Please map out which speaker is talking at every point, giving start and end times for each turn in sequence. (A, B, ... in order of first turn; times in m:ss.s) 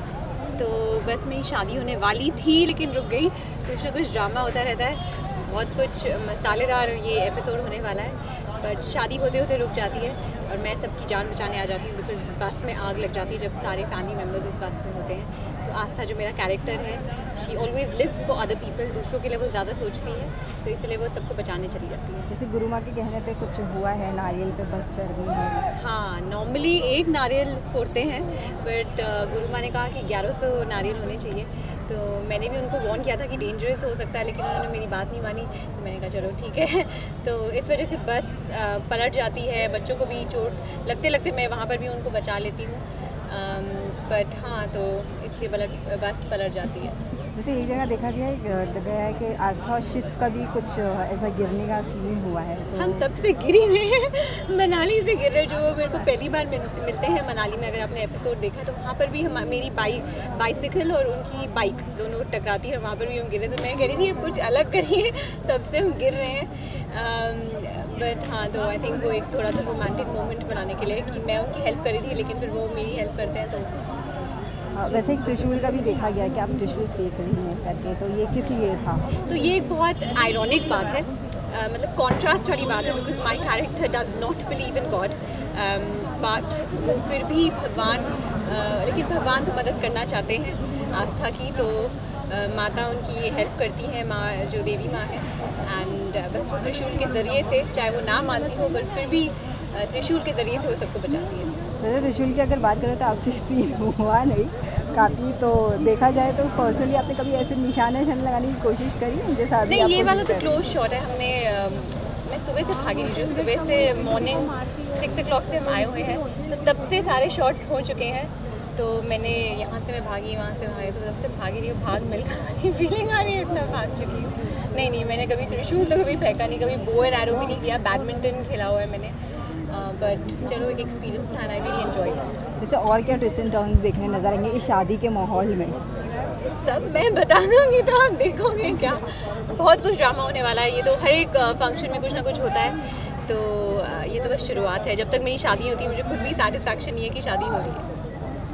0:00.6-0:22.3 A
0:22.3-0:25.6 B
0:25.8-0:47.0 A
0:47.4-0:53.0 B
0:52.8-1:13.8 A
1:14.8-1:19.0 B
1:19.2-1:41.5 A
1:41.8-1:50.5 B
1:49.7-2:12.3 A
2:12.6-2:15.8 B
2:16.5-2:27.8 A